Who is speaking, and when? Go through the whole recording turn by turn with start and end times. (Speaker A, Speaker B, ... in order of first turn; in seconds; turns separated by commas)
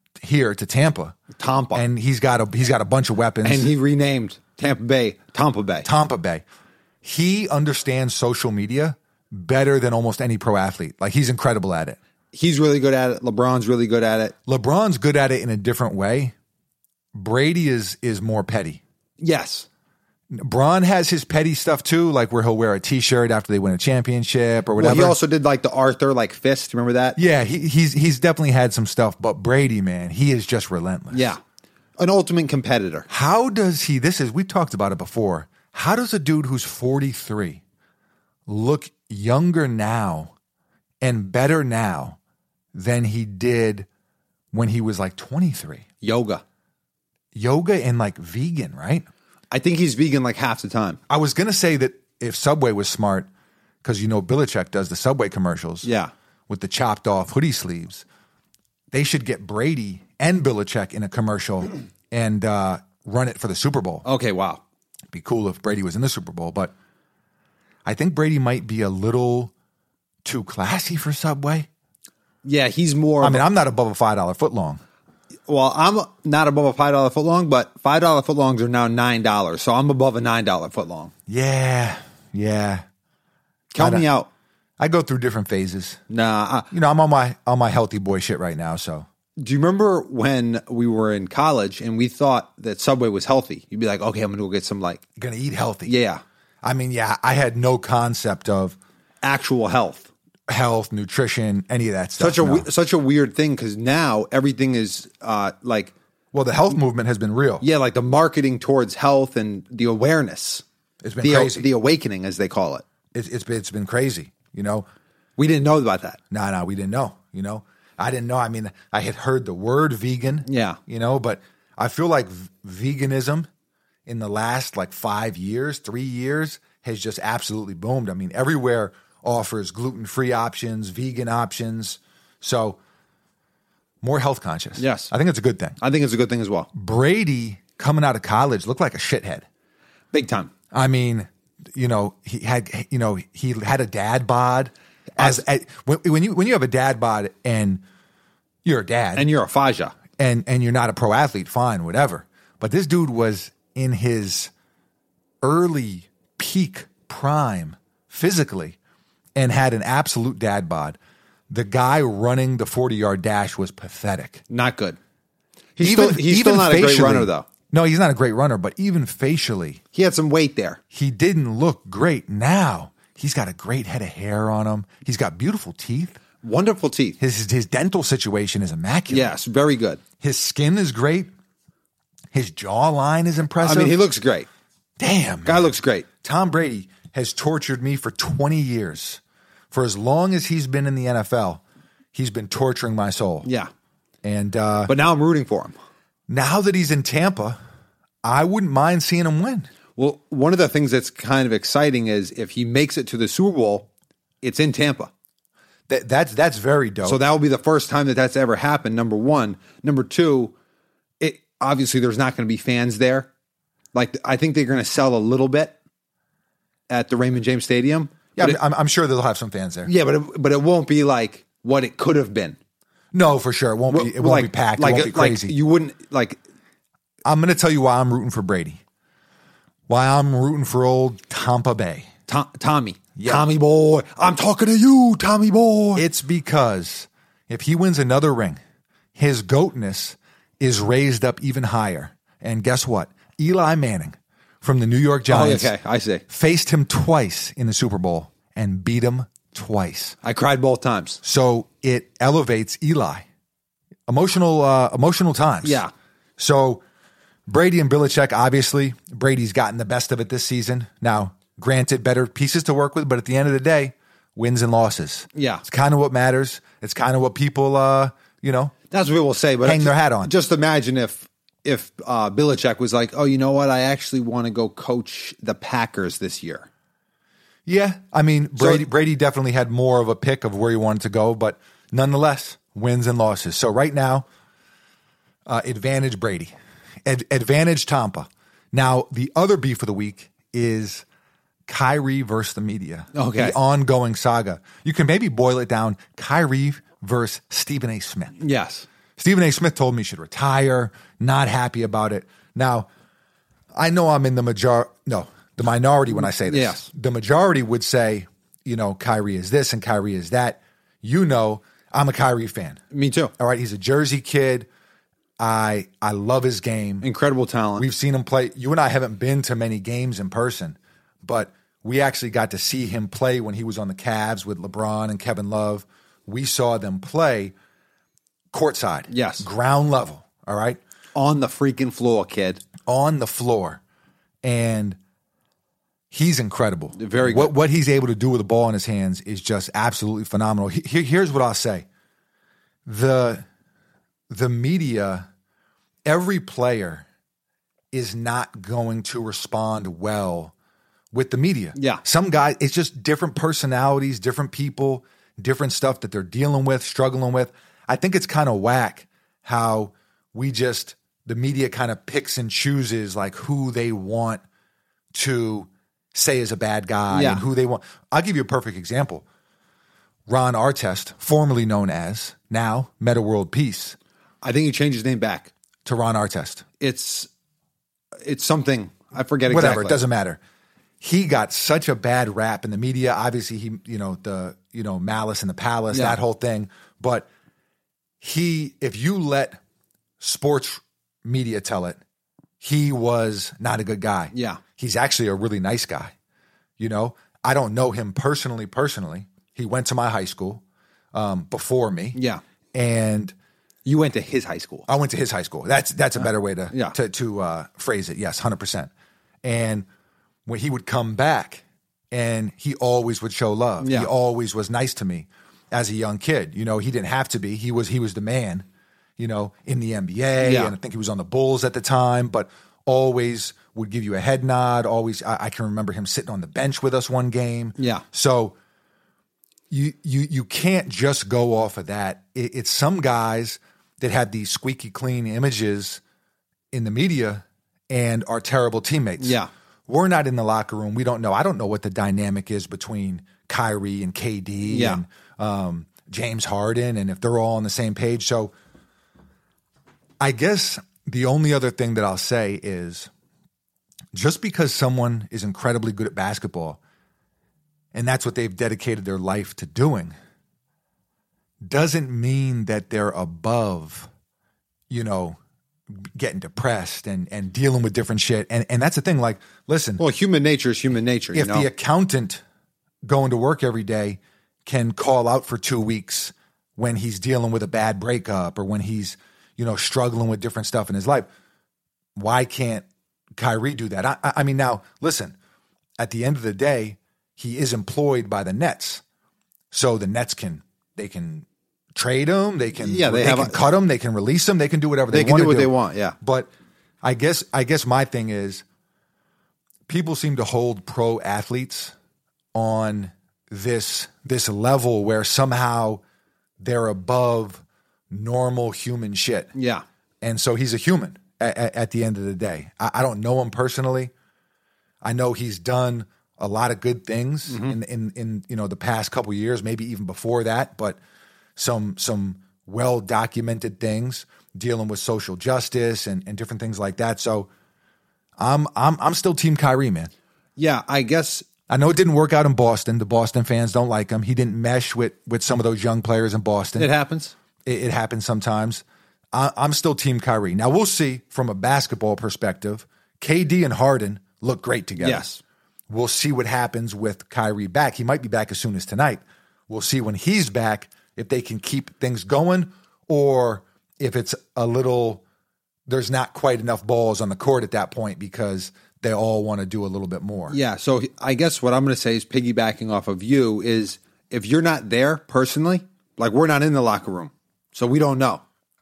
Speaker A: 0.2-1.2, Speaker B: 1.4-1.9, Speaker A: 1.7-3.7, Speaker B: 3.4-5.9, Speaker A: 5.8-6.4, Speaker A: 7.0-12.0, Speaker B: 12.3-14.3, Speaker A: 14.4-16.3, Speaker A: 17.1-18.8, Speaker B: 19.2-19.7, Speaker A: 20.3-25.2, Speaker B: 24.8-27.2, Speaker A: 27.1-31.3, Speaker B: 31.1-31.4, Speaker B: 32.0-33.1, Speaker A: 33.1-37.6, Speaker A: 38.5-40.3, Speaker A: 41.0-42.2, Speaker A: 42.7-43.9, Speaker A: 44.5-45.9, Speaker B: 46.0-46.4, Speaker A: 47.3-49.1, Speaker B: 49.5-51.0, Speaker A: 51.1-53.3, Speaker A: 53.8-55.9, Speaker B: 55.8-56.1, Speaker A: 56.5-58.0, Speaker A: 58.9-64.0, Speaker B: 64.0-64.6, Speaker A: 65.1-66.7, Speaker A: 67.8-69.5, Speaker A: 70.2-71.7, Speaker B: 72.4-73.4, Speaker A: 73.2-74.8, Speaker B: 75.5-81.1, Speaker A: 81.3-82.8, Speaker B: 83.7-84.3, Speaker A: 83.8-84.1, Speaker A: 84.8-86.0, Speaker B: 86.1-86.7, Speaker A: 86.7-89.1, Speaker B: 89.4-95.0, Speaker A: 95.2-96.0, Speaker B: 95.8-96.2, Speaker A: 96.6-98.8, Speaker B: 99.2-100.1, Speaker A: 100.5-102.7, Speaker B: 102.2-105.9, Speaker A: 106.3-107.6, Speaker B: 107.6-110.6, Speaker A: 111.0-111.7, Speaker B: 111.2-112.8, Speaker A: 113.1-114.9, Speaker B: 115.4-116.2, Speaker A: 116.3-123.5, Speaker B: 120.5-120.8, Speaker A: 124.0-132.8, Speaker A: 134.0-135.8, Speaker B: 134.8-135.1, Speaker B: 135.8-136.7, Speaker A: 136.7-139.4, Speaker B: 140.1-140.5, Speaker A: 140.7-147.8, Speaker B: 145.2-145.4, Speaker A: 148.6-149.3, Speaker B: 149.2-149.9, Speaker A: 150.2-154.5, Speaker A: 155.4-158.8, Speaker A: 159.3-161.0, Speaker A: 161.5-164.4, Speaker B: 164.5-165.0, Speaker B: 165.8-167.4, Speaker A: 165.8-169.8, Speaker B: 169.9-170.8, Speaker A: 170.9-176.2, Speaker B: 176.4-177.2, Speaker A: 177.2-179.3, Speaker B: 179.1-180.0, Speaker A: 180.2-181.3, Speaker A: 182.3-184.0, Speaker B: 183.6-184.5, Speaker A: 185.0-189.2, Speaker B: 185.4-186.1, Speaker A: 189.7-191.6, Speaker A: 192.1-193.5, Speaker B: 193.4-193.7, Speaker A: 194.2-194.9, Speaker B: 194.9-195.8, Speaker A: 196.3-197.6, Speaker A: 198.2-199.7, Speaker B: 200.0-203.9, Speaker B: 204.4-205.1, Speaker A: 205.9-207.2, Speaker B: 207.0-210.5, Speaker B: 211.2-213.3, Speaker B: 213.9-215.8, Speaker B: 216.9-218.6, Speaker A: 218.3-219.9, Speaker B: 219.8-222.6, Speaker A: 223.1-225.6, Speaker B: 223.9-226.4, Speaker A: 227.2-228.8, Speaker A: 229.9-232.1, Speaker B: 232.3-236.0, Speaker A: 233.2-233.5, Speaker A: 235.9-238.6, Speaker A: 239.2-245.7, Speaker B: 245.3-246.2, Speaker A: 246.3-250.2, Speaker B: 250.2-251.2, Speaker A: 251.2-253.2, Speaker A: 254.1-255.8, Speaker B: 255.6-255.9, Speaker A: 256.4-256.8, Speaker A: 257.5-268.7, Speaker B: 265.4-265.6, Speaker B: 268.9-276.7, Speaker A: 269.6-270.3, Speaker A: 277.6-284.2, Speaker B: 278.6-278.8, Speaker A: 285.4-286.5, Speaker A: 287.0-291.0, Speaker A: 291.7-298.4, Speaker B: 293.1-293.6, Speaker B: 298.4-298.9, Speaker A: 299.2-302.9, Speaker A: 303.7-312.8, Speaker B: 306.4-306.9, Speaker B: 312.9-313.3, Speaker A: 313.4-314.7, Speaker A: 315.4-317.1, Speaker B: 317.0-317.9, Speaker A: 317.8-327.5, Speaker A: 328.5-330.8, Speaker B: 329.1-329.4, Speaker B: 331.1-332.6, Speaker A: 332.8-333.8, Speaker A: 334.4-335.0, Speaker A: 336.1-341.9, Speaker B: 337.0-337.5, Speaker A: 342.9-343.4, Speaker A: 344.3-345.3, Speaker A: 346.1-347.1, Speaker A: 347.9-350.5, Speaker A: 351.1-364.4, Speaker B: 351.8-352.0, Speaker A: 365.1-369.2, Speaker B: 367.1-367.4, Speaker A: 370.3-374.0, Speaker B: 374.4-375.5, Speaker A: 375.8-376.6, Speaker B: 376.8-377.3, Speaker B: 378.2-380.0, Speaker A: 379.5-380.4, Speaker A: 381.0-387.3, Speaker B: 385.9-386.2, Speaker A: 388.2-389.6, Speaker A: 390.2-392.0, Speaker A: 392.6-396.1, Speaker B: 394.3-394.6, Speaker A: 396.8-402.2, Speaker B: 402.1-402.4, Speaker A: 402.7-403.3, Speaker B: 403.9-404.9, Speaker A: 404.9-408.9, Speaker B: 406.7-406.9, Speaker A: 409.4-409.9, Speaker A: 410.4-418.6, Speaker B: 413.8-414.1, Speaker A: 419.2-428.6, Speaker B: 420.4-420.7, Speaker B: 427.8-428.0, Speaker A: 429.7-436.0, Speaker A: 436.7-448.5, Speaker B: 439.2-439.5, Speaker B: 444.7-445.0, Speaker A: 450.2-453.1, Speaker A: 454.1-456.8, Speaker A: 457.9-460.1, Speaker A: 461.6-464.1, Speaker A: 464.9-465.4, Speaker A: 466.0-470.0, Speaker B: 470.0-471.7, Speaker A: 471.3-472.4, Speaker A: 473.0-481.3, Speaker A: 482.1-485.4, Speaker A: 486.0-489.0, Speaker A: 489.7-496.5, Speaker B: 492.8-493.6, Speaker B: 495.1-496.1, Speaker A: 497.0-498.6, Speaker A: 499.9-501.9, Speaker A: 502.5-506.0, Speaker A: 506.6-509.5, Speaker B: 509.5-509.8, Speaker A: 510.2-514.1, Speaker A: 515.0-521.0, Speaker B: 517.5-517.8, Speaker A: 521.5-527.5, Speaker A: 528.4-530.1, Speaker B: 530.6-531.5, Speaker A: 531.7-536.9, Speaker B: 536.8-537.3, Speaker A: 537.6-545.2, Speaker B: 545.0-545.4, Speaker A: 545.9-555.2, Speaker A: 555.9-560.6, Speaker B: 560.5-568.4